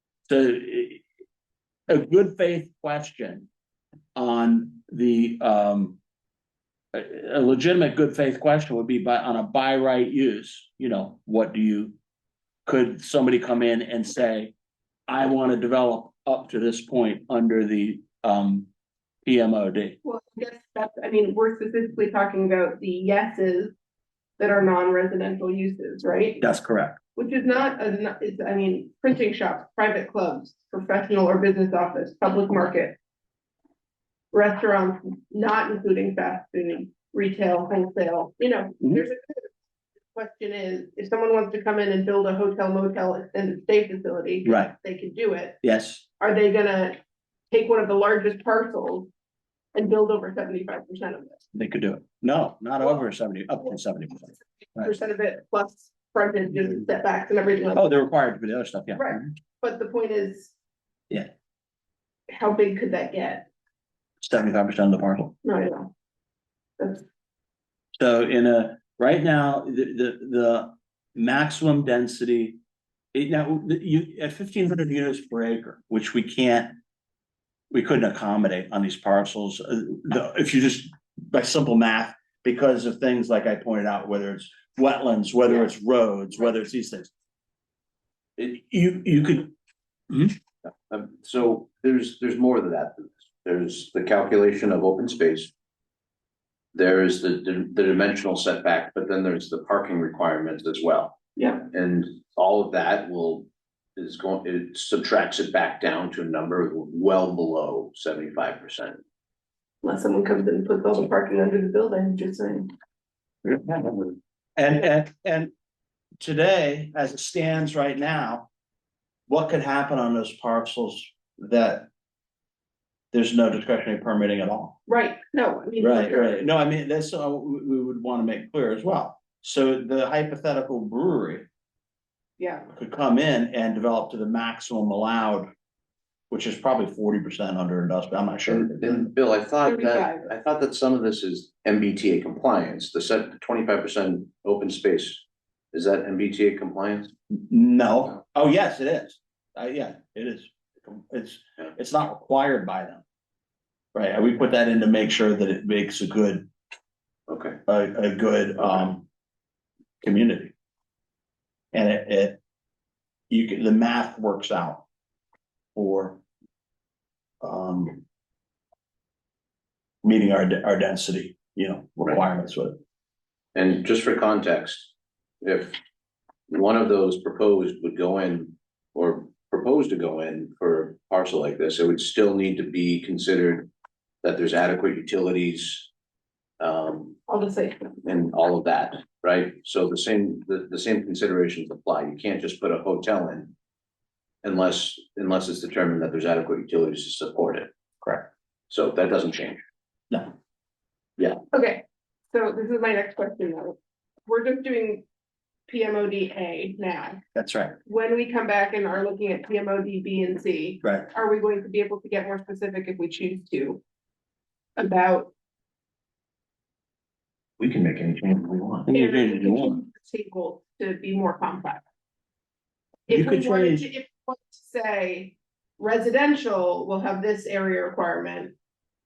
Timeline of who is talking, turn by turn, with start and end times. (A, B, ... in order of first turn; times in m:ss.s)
0:00.3-0:01.0 A
0:01.9-0:03.5 A
0:04.2-0:06.0 A
0:06.9-0:11.9 A
0:12.6-0:14.5 A
0:15.1-0:18.7 A
0:19.2-0:20.0 A
0:20.0-0:23.7 B
0:24.4-0:26.4 B
0:26.4-0:27.0 A
0:27.2-0:33.0 B
0:34.3-0:39.5 B
0:40.1-0:45.6 B
0:44.4-0:44.7 A
0:45.6-0:46.0 A
0:46.2-0:47.0 B
0:47.5-0:49.1 B
0:49.7-0:51.4 B
0:51.5-0:54.9 A
0:54.7-0:57.9 B
0:57.7-0:59.3 A
0:58.9-1:00.5 B
1:02.3-1:03.5 B
1:04.2-1:05.3 A
1:05.4-1:05.9 B
1:06.8-1:07.0 B
1:08.0-1:12.6 A
1:13.1-1:16.8 A
1:17.7-1:27.1 A
1:28.4-1:29.5 A
1:30.1-1:30.3 A
1:30.9-1:35.5 C
1:36.7-1:41.2 C
1:41.4-1:41.6 B
1:41.7-1:49.0 C
1:49.8-1:52.7 B
1:53.4-1:55.5 A
1:56.2-1:58.5 A
1:59.3-2:01.9 A
2:03.1-2:04.8 A
2:04.9-2:06.4 B
2:05.8-2:11.5 A
2:12.4-2:12.7 B
2:12.7-2:15.5 A
2:16.3-2:19.1 A
2:18.5-2:27.1 C
2:19.6-2:20.3 B
2:27.3-2:33.0 A
2:33.9-2:36.5 A
2:37.3-2:37.6 C
2:37.7-2:39.0 A
2:40.0-2:40.5 A
2:41.7-2:42.4 A
2:43.3-2:44.8 A
2:45.7-2:46.2 A
2:47.4-2:48.0 A
2:50.0-2:52.8 A
2:53.5-2:55.8 C
2:56.5-3:03.7 C
3:04.2-3:05.9 C
3:06.6-3:07.2 C
3:07.3-3:08.0 B
3:08.0-3:13.5 C
3:14.4-3:17.7 C
3:18.7-3:19.6 C
3:21.5-3:25.0 B
3:25.7-3:27.2 B
3:27.3-3:27.8 A
3:27.8-3:33.8 B
3:30.8-3:31.1 A
3:34.8-3:35.3 B
3:37.6-3:38.9 C
3:38.9-3:39.8 A
3:38.9-3:41.8 B
3:43.1-3:48.5 B
3:43.1-3:43.9 A